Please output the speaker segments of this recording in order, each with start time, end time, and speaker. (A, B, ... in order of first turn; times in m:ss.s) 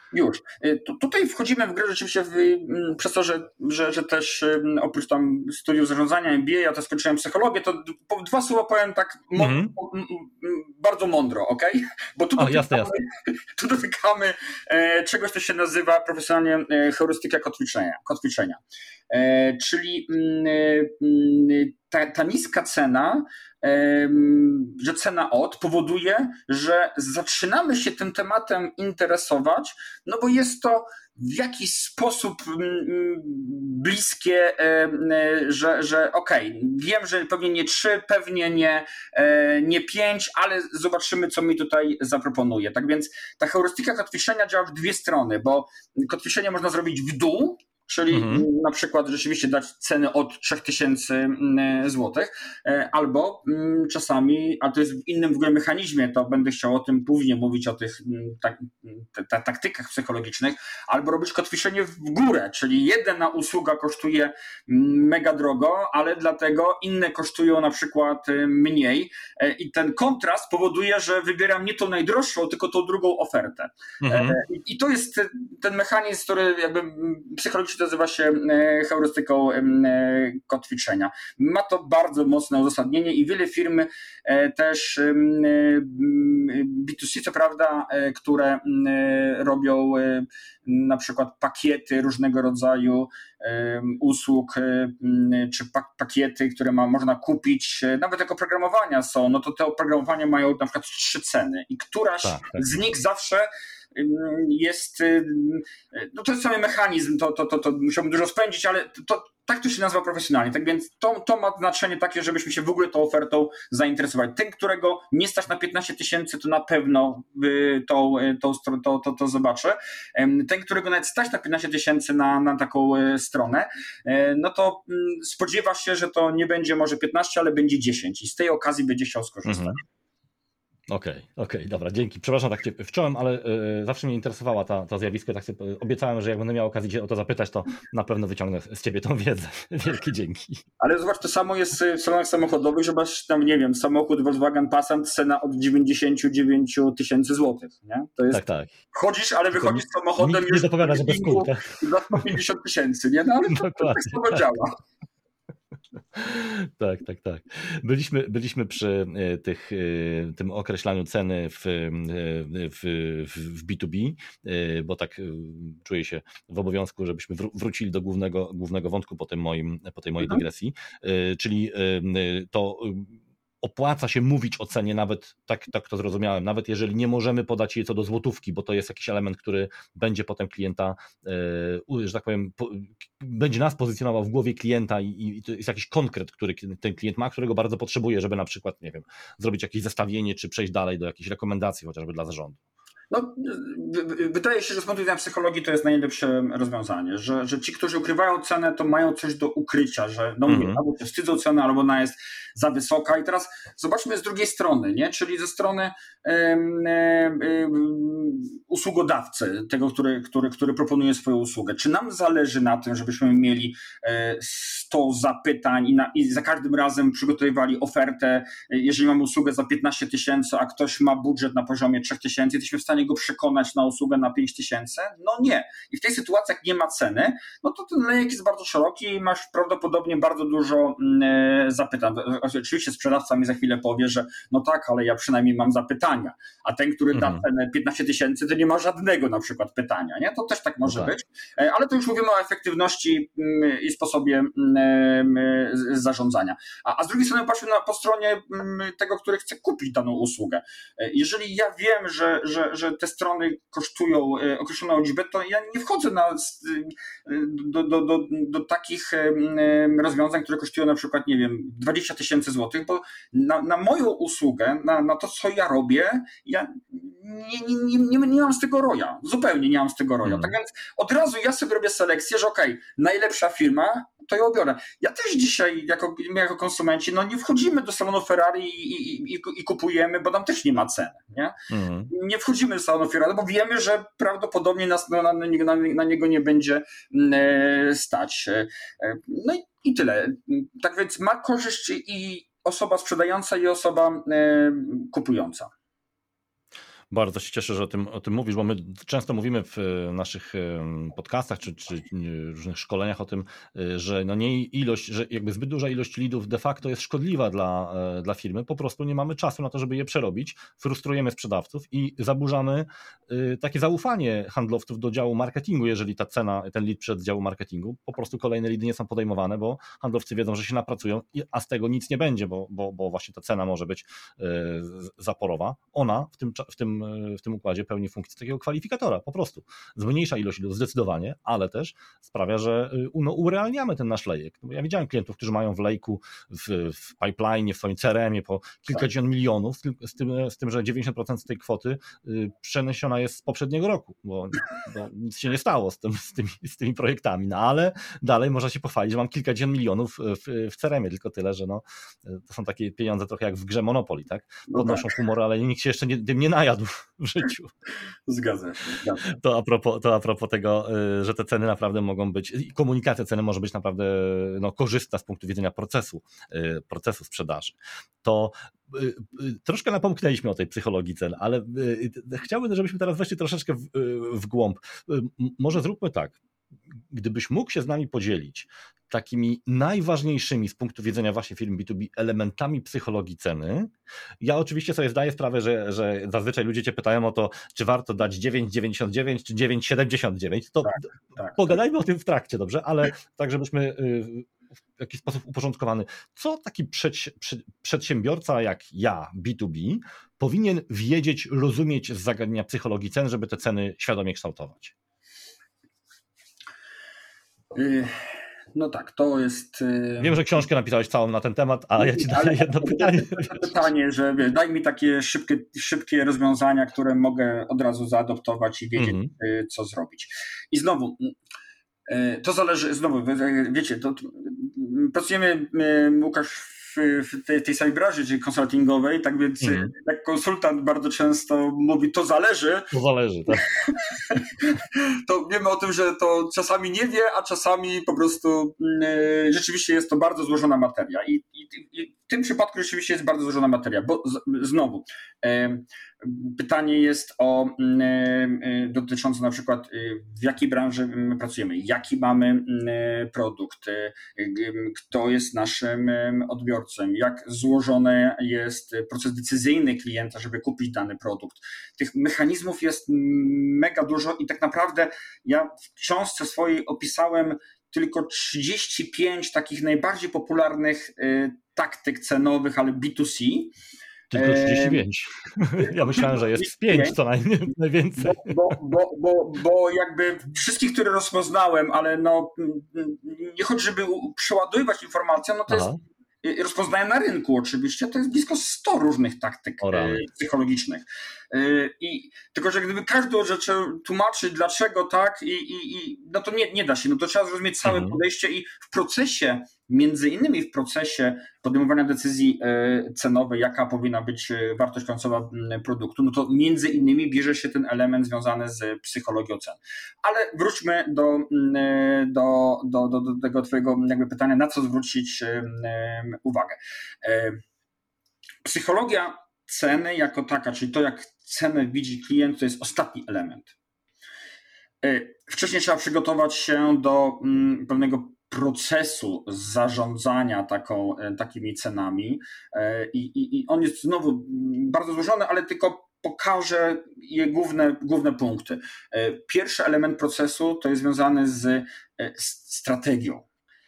0:00.1-2:09.8 A
0:09.4-0:09.7 B
0:12.4-0:13.0 B
0:48.1-0:48.5 B
1:14.0-1:14.4 B
1:42.2-1:42.6 B
2:09.5-2:09.8 B
2:10.9-2:20.6 B
2:20.8-2:28.4 A
2:28.3-2:28.7 B
2:28.9-2:34.8 A
2:29.5-2:32.3 B
2:33.5-2:34.4 B
2:36.1-3:12.6 B
3:13.1-4:41.6 A
3:20.5-3:20.8 B
3:57.1-3:57.4 B
4:30.2-4:30.5 B
4:41.7-4:42.1 B
4:42.1-4:55.7 A
4:57.1-5:57.7 B
5:54.7-5:55.1 A
5:58.3-5:59.4 A
5:59.2-6:16.4 B
6:17.1-6:31.0 B
6:30.8-6:31.7 A
6:31.6-6:44.9 B
6:47.7-6:50.5 A
6:50.2-6:53.8 B
6:52.0-7:01.3 A
6:59.0-6:59.3 B
7:02.1-7:12.9 A
7:09.6-7:09.9 B
7:12.9-7:13.6 B
7:13.5-7:53.7 A
7:54.3-7:58.7 B
7:54.4-7:55.0 A
7:55.8-7:57.2 A
7:58.2-8:37.6 A
8:05.7-8:06.0 B
8:09.8-8:10.2 B
8:17.8-8:18.2 B
8:38.6-8:43.7 A
8:45.0-9:03.4 A